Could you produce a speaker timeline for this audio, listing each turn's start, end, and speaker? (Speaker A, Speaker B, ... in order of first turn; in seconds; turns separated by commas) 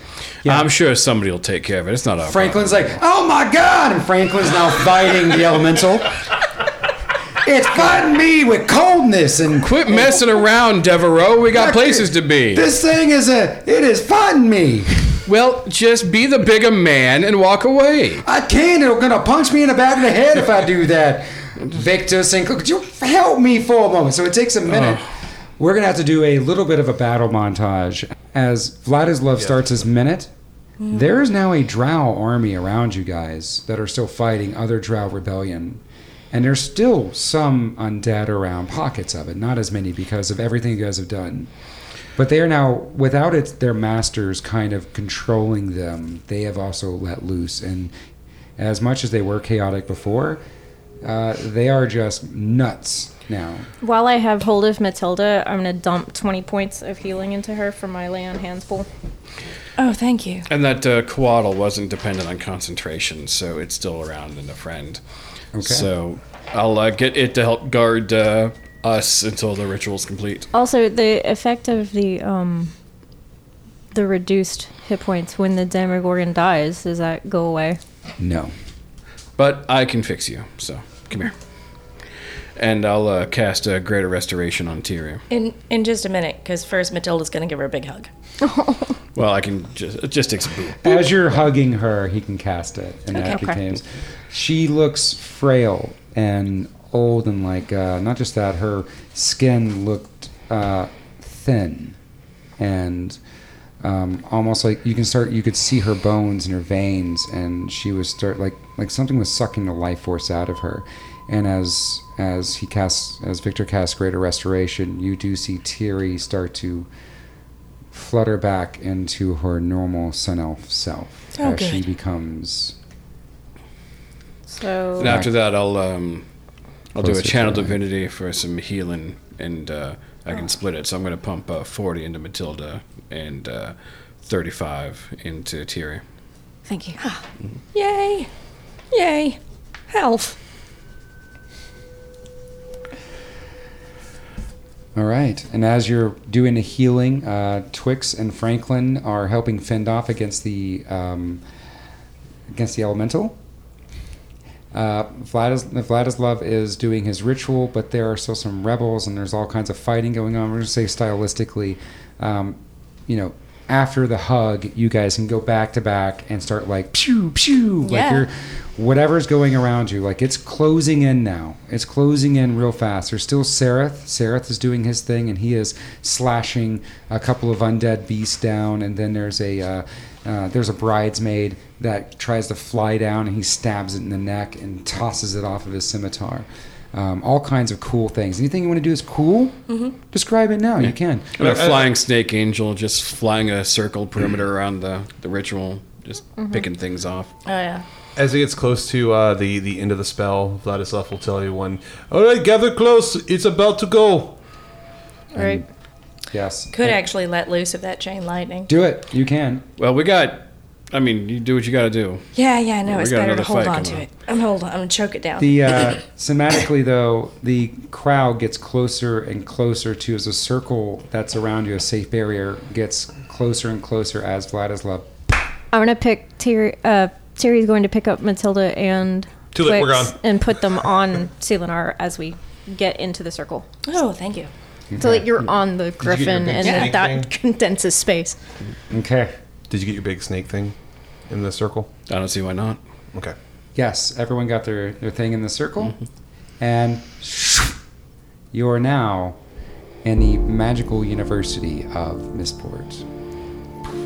Speaker A: 0.5-0.7, Speaker B: 0.5-2.8, Speaker A: 2.3-6.2, Speaker A: 7.4-10.2, Speaker B: 9.6-12.7, Speaker A: 11.5-15.2, Speaker B: 15.3-18.2, Speaker A: 18.2-30.3, Speaker A: 30.9-41.5, Speaker A: 42.2-47.9, Speaker A: 48.6-50.4, Speaker A: 51.0-53.7, Speaker C: 53.8-58.9, Speaker D: 59.8-60.5, Speaker B: 60.5-65.0, Speaker A: 65.5-65.9, Speaker B: 65.6-70.5, Speaker C: 70.5-72.7, Speaker C: 73.9-77.8, Speaker A: 78.2-78.5, Speaker B: 79.4-81.3, Speaker B: 82.6-85.2, Speaker D: 85.3-88.1, Speaker C: 88.4-89.0, Speaker B: 89.2-91.0, Speaker A: 90.8-102.0, Speaker C: 93.2-93.6, Speaker A: 102.6-103.2, Speaker A: 103.8-116.9, Speaker A: 117.9-122.8, Speaker D: 121.3-121.8, Speaker C: 124.5-125.2, Speaker B: 125.0-126.3, Speaker A: 125.0-125.3, Speaker B: 126.9-136.0, Speaker A: 127.0-127.8, Speaker C: 136.7-137.0, Speaker D: 137.0-138.3, Speaker D: 138.9-139.4, Speaker D: 139.9-140.4, Speaker A: 144.9-151.4, Speaker A: 152.5-153.4, Speaker A: 154.7-191.5, Speaker D: 167.8-168.2, Speaker D: 189.7-189.9, Speaker B: 190.8-197.3, Speaker E: 191.4-191.9, Speaker C: 196.4-196.6, Speaker D: 197.5-197.8, Speaker E: 198.2-204.4, Speaker A: 205.3-205.7, Speaker C: 205.3-205.6, Speaker A: 206.3-207.0, Speaker D: 206.7-208.7, Speaker A: 208.7-209.7, Speaker B: 209.8-212.3, Speaker D: 212.3-215.8, Speaker B: 212.9-214.1, Speaker A: 215.4-225.2, Speaker C: 225.7-233.7, Speaker E: 229.5-230.2, Speaker D: 233.9-234.5, Speaker A: 234.9-235.3, Speaker C: 235.0-238.4, Speaker E: 236.0-237.3, Speaker D: 236.6-236.9, Speaker A: 238.9-239.3, Speaker E: 239.7-240.8, Speaker E: 241.3-241.9, Speaker B: 242.1-242.8, Speaker A: 243.8-246.0, Speaker A: 246.6-247.8, Speaker A: 248.5-249.4, Speaker A: 250.0-253.1